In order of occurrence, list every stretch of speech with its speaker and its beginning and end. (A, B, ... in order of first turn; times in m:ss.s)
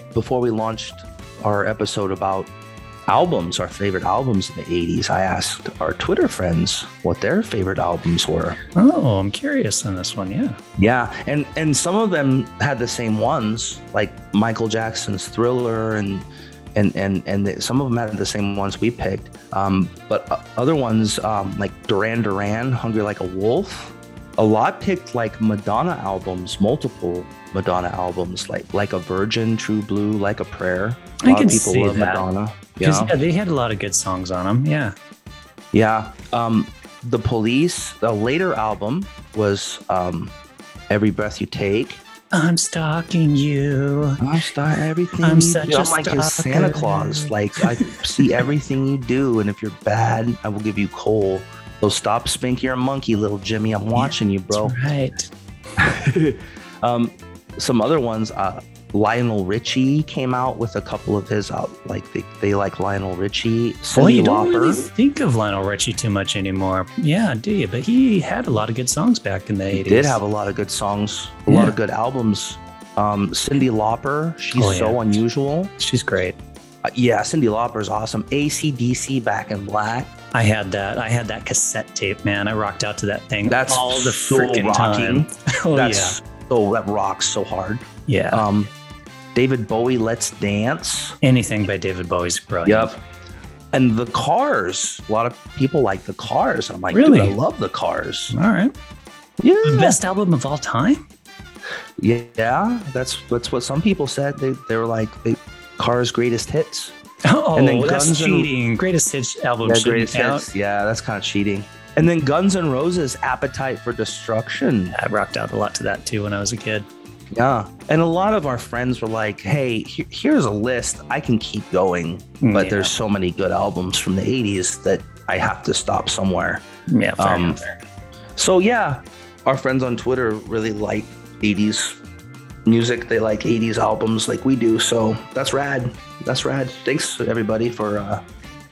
0:00.1-0:02.5 A
0:03.1-0:08.6 A
0:08.7-0:10.6 B
0:10.8-0:33.1 A
0:31.2-0:32.2 B
0:32.8-0:34.9 B
0:35.7-0:40.3 A
0:40.9-0:42.0 A
0:42.3-0:44.2 B
0:44.2-0:54.8 A
0:45.2-0:48.4 B
0:53.9-0:55.3 B
0:55.8-1:04.9 A
1:03.9-1:10.2 B
1:09.7-1:15.7 A
1:11.5-1:11.7 B
1:14.5-1:15.2 B
1:15.8-1:16.4 B
1:16.8-1:20.1 A
1:20.3-1:26.2 B
1:23.4-1:28.7 A
1:28.1-1:28.4 B
1:29.3-1:31.2 A
1:31.2-1:32.9 B
1:32.6-1:33.0 A
1:33.7-1:38.3 A
1:36.9-1:37.4 B
1:38.3-1:38.7 B
1:39.4-1:40.0 A
1:39.6-1:41.0 B
1:42.0-1:46.9 A
1:47.2-1:50.4 B
1:47.6-1:48.5 A
1:49.6-1:54.9 A
1:54.9-1:56.9 B
1:57.3-2:06.6 A
2:02.4-2:02.9 B
2:06.9-2:07.8 B
2:07.2-2:07.6 A
2:08.4-2:12.0 A
2:12.6-2:18.2 A